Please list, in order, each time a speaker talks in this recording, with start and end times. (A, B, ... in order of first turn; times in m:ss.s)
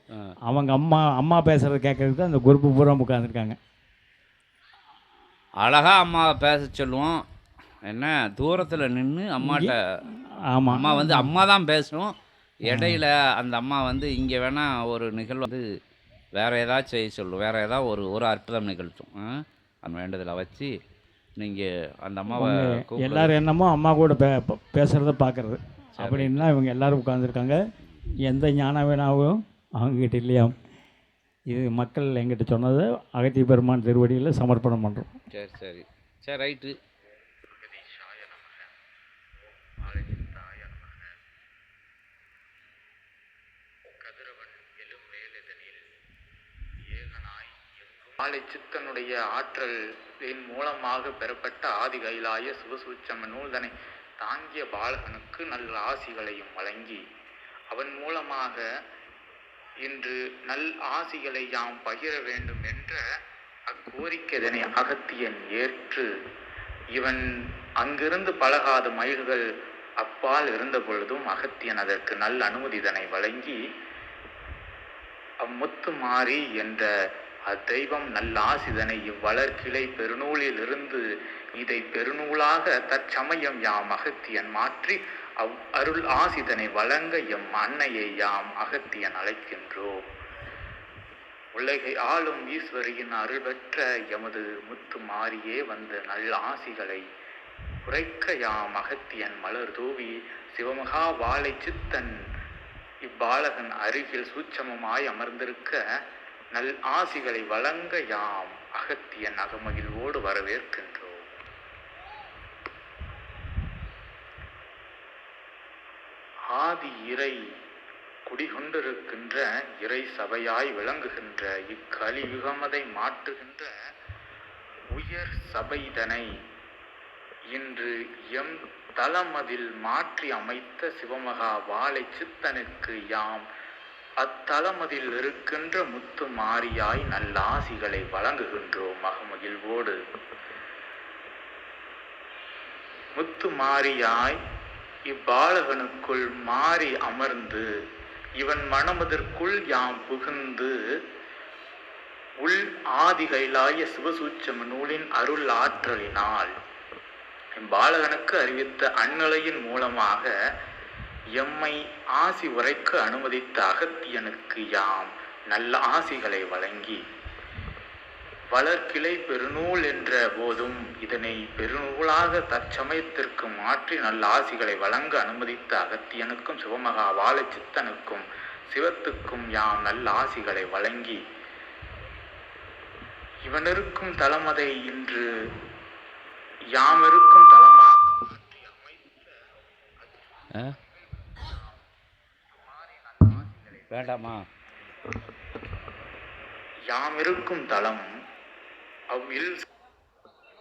0:00.5-0:03.6 A
0:05.6-0:07.2 B
0:07.9-0:10.0 B
0:09.4-0:11.3 A
0:10.7-0:12.1 B
0:12.6-0:13.0 A
0:12.6-0:15.6 B
0:16.4-0:20.7 B
0:21.4-0:23.4 B
0:22.3-0:27.6 A
0:26.0-0:26.4 B
0:28.2-0:30.6 A
0:31.5-0:35.1 A
0:35.3-0:36.8 B
0:37.2-0:38.7 C
0:39.6-0:41.1 C
0:44.0-0:45.9 C
0:46.9-0:57.0 C
0:57.7-0:58.6 C
0:59.8-1:03.0 C
1:03.7-1:06.0 C
1:06.9-1:07.2 C
1:07.8-1:09.4 C
1:10.0-1:13.6 C
1:15.4-1:16.9 C
1:17.5-1:21.0 C
1:21.6-1:30.0 C
1:31.6-1:37.0 C
1:37.9-1:42.1 C
1:43.1-1:45.8 C
1:46.5-1:51.3 C
1:56.5-1:57.4 C
1:58.3-2:03.7 C
2:04.9-2:06.2 C
2:07.5-2:13.4 C
2:14.2-2:20.0 C
2:23.2-2:24.4 C
2:25.1-2:27.6 C
2:28.4-2:30.7 C
2:32.4-2:36.5 C
2:37.6-2:40.3 C
2:41.4-2:47.0 C
2:48.5-3:01.2 C
3:03.4-3:05.2 C
3:06.8-3:09.4 C
3:10.0-3:11.8 C
3:12.5-3:14.3 C
3:13.9-3:14.4 B
3:16.9-3:18.1 C
3:19.1-3:19.6 C